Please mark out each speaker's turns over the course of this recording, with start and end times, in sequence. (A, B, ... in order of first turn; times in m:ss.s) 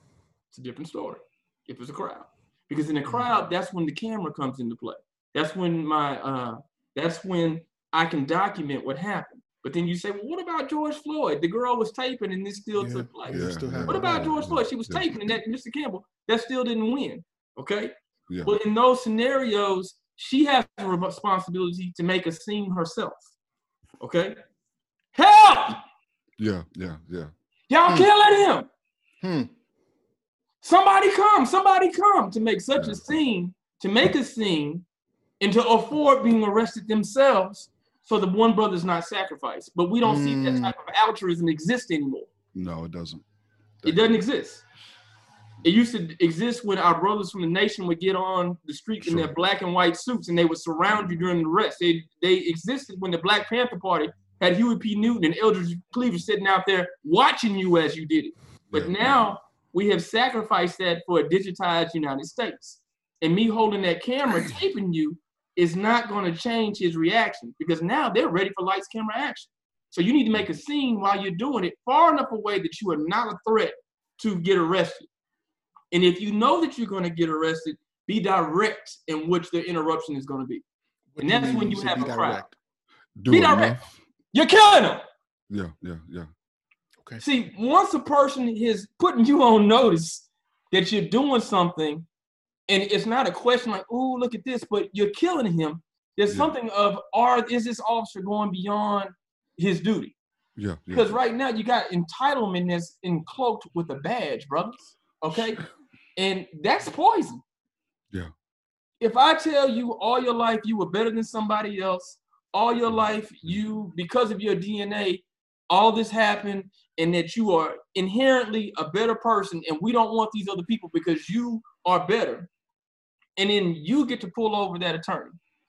0:00.5-0:23.2 A
0:12.8-0:14.5 B
0:13.3-0:15.4 C
0:18.3-0:18.6 C
0:24.0-0:24.4 A
0:25.1-0:25.8 A
0:26.4-0:27.3 C
0:27.7-0:28.7 A
0:29.2-0:29.5 B
0:30.6-0:34.8 A
0:32.8-0:33.1 C
0:35.4-0:42.3 A
0:40.0-0:40.7 B
0:42.5-0:43.2 C
0:43.8-0:44.1 C
0:43.8-0:44.6 A
0:45.6-1:15.1 A
0:49.0-0:49.3 C
0:58.7-0:59.4 C
1:04.3-1:04.6 C
1:15.9-1:20.6 A
1:21.2-1:22.6 B
1:21.2-1:22.4 A
1:23.2-1:24.0 C
1:23.3-1:23.8 A
1:24.3-1:25.0 A
1:25.5-1:26.3 C
1:27.2-1:32.0 A
1:32.7-1:40.1 A
1:40.6-1:41.2 C
1:40.9-1:45.6 A
1:46.2-1:47.4 A
1:49.0-2:02.5 A
1:52.9-1:53.6 C
2:03.4-2:05.4 A